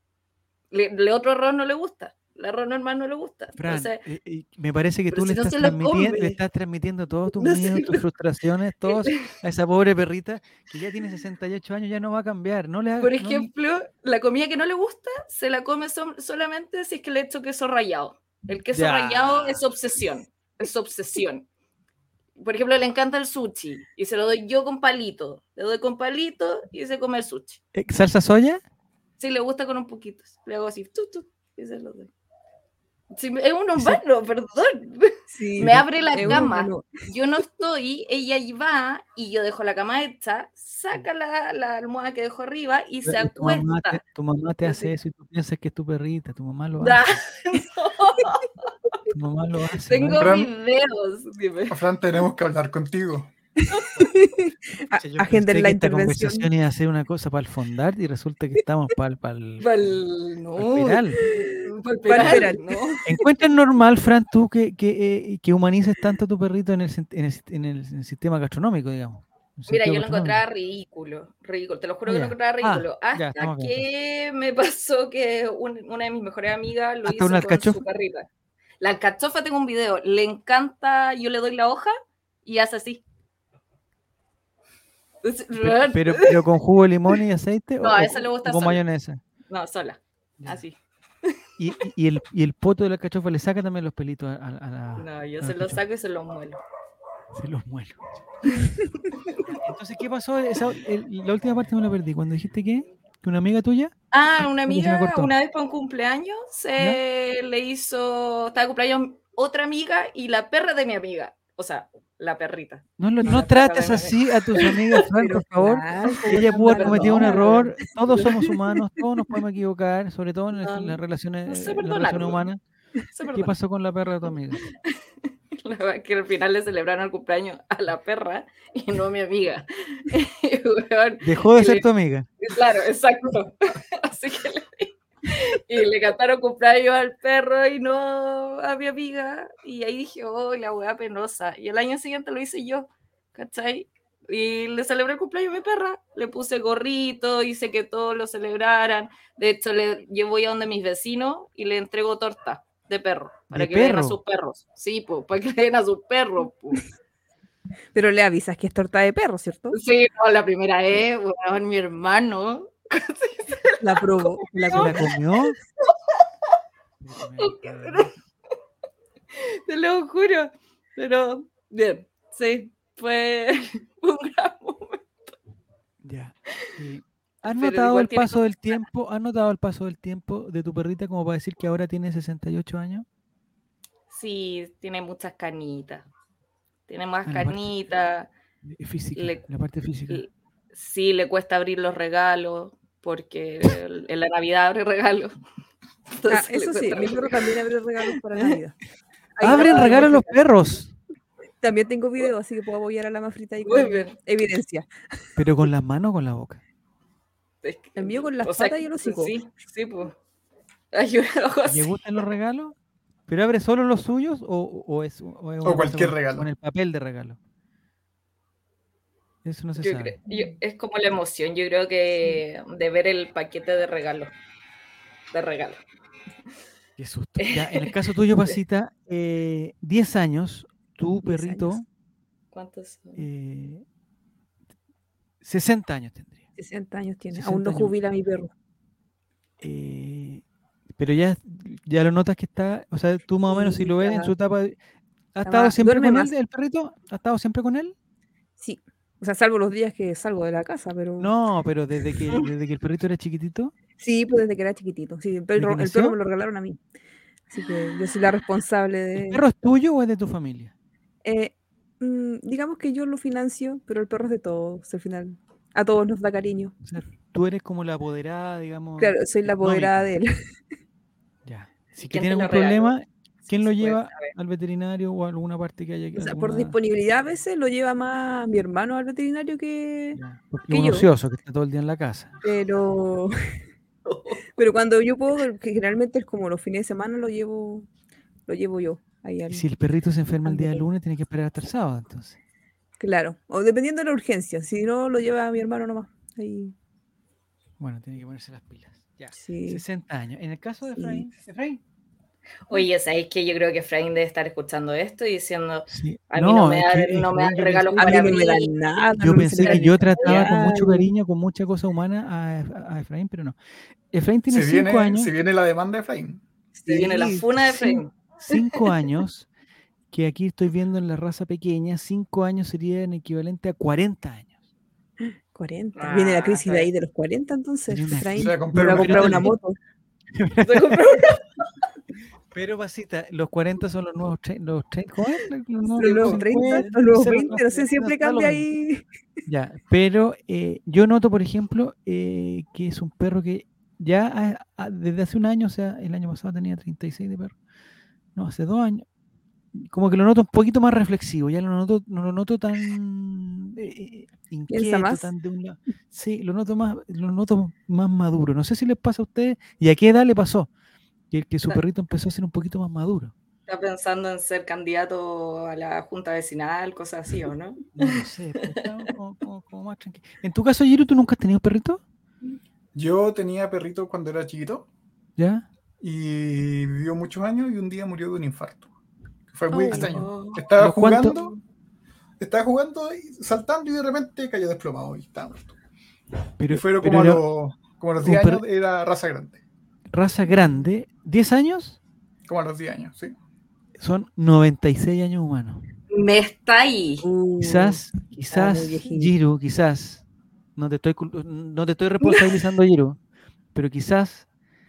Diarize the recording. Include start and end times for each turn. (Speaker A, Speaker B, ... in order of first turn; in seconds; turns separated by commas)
Speaker A: 0.7-4.0, Speaker B: 3.5-13.5, Speaker A: 5.1-6.4, Speaker A: 7.4-8.0, Speaker A: 8.9-9.2, Speaker A: 13.0-21.4, Speaker B: 18.7-19.6, Speaker A: 22.4-27.6, Speaker B: 27.7-28.6, Speaker A: 29.2-32.1, Speaker A: 33.1-44.0, Speaker B: 33.8-34.0, Speaker C: 35.3-37.0, Speaker B: 36.2-36.5, Speaker B: 43.0-47.2, Speaker A: 46.8-48.7, Speaker B: 49.1-50.4, Speaker A: 49.9-51.8, Speaker D: 50.2-50.5, Speaker D: 51.7-53.3, Speaker A: 53.7-54.1, Speaker C: 54.0-56.5, Speaker B: 54.9-59.9, Speaker A: 59.6-63.0, Speaker B: 60.5-61.3, Speaker C: 61.2-62.9, Speaker B: 62.2-62.5, Speaker B: 63.0-70.4, Speaker A: 69.7-78.3, Speaker B: 72.1-73.9, Speaker B: 77.0-77.8, Speaker A: 78.8-81.9, Speaker A: 82.4-83.0, Speaker A: 85.2-86.4, Speaker B: 85.5-89.2, Speaker A: 87.8-88.8, Speaker A: 89.5-91.4, Speaker B: 91.6-95.8, Speaker A: 95.0-96.6, Speaker B: 97.3-98.1, Speaker C: 98.5-99.0, Speaker B: 99.4-103.9, Speaker A: 104.1-115.0, Speaker B: 104.7-105.3, Speaker B: 113.0-122.6, Speaker C: 115.2-118.2, Speaker A: 116.3-118.2, Speaker A: 120.6-122.5, Speaker A: 123.1-123.5, Speaker B: 123.3-124.6, Speaker A: 124.6-124.9, Speaker A: 125.5-131.8, Speaker B: 131.2-132.3, Speaker A: 132.4-156.9, Speaker B: 153.5-154.2, Speaker C: 157.9-159.8, Speaker A: 159.7-165.1, Speaker C: 163.8-165.1, Speaker B: 164.7-165.6, Speaker B: 167.0-168.2, Speaker A: 167.4-168.1, Speaker A: 169.3-175.3, Speaker B: 176.0-183.1, Speaker A: 177.4-178.8, Speaker A: 184.1-186.1, Speaker A: 186.9-188.3, Speaker B: 187.2-187.7, Speaker B: 188.7-190.2, Speaker A: 189.2-189.4, Speaker A: 190.1-195.3, Speaker A: 196.2-198.6, Speaker C: 196.3-198.8, Speaker C: 199.4-200.1, Speaker B: 199.4-200.9, Speaker A: 199.4-200.4, Speaker C: 201.6-204.9, Speaker A: 203.6-204.1, Speaker B: 205.4-206.6, Speaker A: 207.6-210.1, Speaker C: 207.9-209.3, Speaker A: 210.9-211.9, Speaker B: 211.7-212.8, Speaker B: 213.3-217.4, Speaker D: 215.6-216.5, Speaker B: 219.4-220.2, Speaker A: 219.8-224.3, Speaker C: 220.3-220.6, Speaker A: 225.3-225.8, Speaker B: 227.0-231.8, Speaker A: 227.4-227.9, Speaker C: 231.2-231.8, Speaker A: 232.5-233.2, Speaker B: 233.2-233.8, Speaker B: 235.4-236.4, Speaker C: 236.6-238.5, Speaker B: 237.3-237.9, Speaker B: 239.6-240.4, Speaker B: 241.0-244.8, Speaker C: 243.5-244.3, Speaker B: 245.3-247.9, Speaker C: 245.4-246.3, Speaker C: 248.6-251.3, Speaker B: 251.2-253.7, Speaker C: 254.0-256.8, Speaker B: 255.5-256.1, Speaker C: 257.5-259.4, Speaker B: 259.1-260.7, Speaker C: 261.2-266.8, Speaker B: 266.8-270.1, Speaker C: 269.0-270.3, Speaker B: 271.4-276.8, Speaker A: 272.1-274.3, Speaker C: 276.2-280.2, Speaker B: 280.1-282.3, Speaker C: 280.7-281.1, Speaker C: 282.4-283.6, Speaker A: 284.1-284.4, Speaker C: 284.6-287.9, Speaker C: 288.5-289.7, Speaker B: 289.5-292.4, Speaker C: 290.4-290.9, Speaker C: 293.0-296.7, Speaker B: 297.8-301.8, Speaker C: 299.4-299.8, Speaker C: 301.0-301.2, Speaker A: 302.7-310.2, Speaker B: 305.9-308.4, Speaker C: 307.9-311.1, Speaker B: 309.2-313.6, Speaker B: 314.1-315.3, Speaker D: 314.5-316.4, Speaker A: 316.8-318.8, Speaker B: 316.9-319.5, Speaker C: 316.9-317.4, Speaker B: 320.1-324.6, Speaker C: 325.5-329.8, Speaker A: 325.9-326.9, Speaker B: 327.9-329.5, Speaker D: 328.4-329.5, Speaker B: 330.4-331.2, Speaker A: 330.6-331.4, Speaker B: 332.5-338.7, Speaker A: 335.9-336.9, Speaker C: 336.0-339.1, Speaker B: 339.4-347.6, Speaker B: 348.4-349.0, Speaker B: 349.7-360.7, Speaker C: 354.7-355.3, Speaker B: 361.3-363.3, Speaker A: 363.7-368.8, Speaker B: 367.9-372.0, Speaker D: 372.9-374.9, Speaker B: 375.4-375.6, Speaker D: 376.0-378.9, Speaker D: 379.5-381.6, Speaker C: 379.7-380.2, Speaker A: 379.9-380.6, Speaker B: 380.8-381.4, Speaker D: 382.4-385.7, Speaker B: 386.6-387.4, Speaker D: 386.7-389.6, Speaker B: 388.2-388.6, Speaker B: 390.1-392.0, Speaker D: 392.5-393.4, Speaker B: 394.0-395.9, Speaker A: 396.1-397.2, Speaker C: 397.2-399.3, Speaker B: 397.6-400.2, Speaker B: 400.8-403.2, Speaker B: 403.7-404.5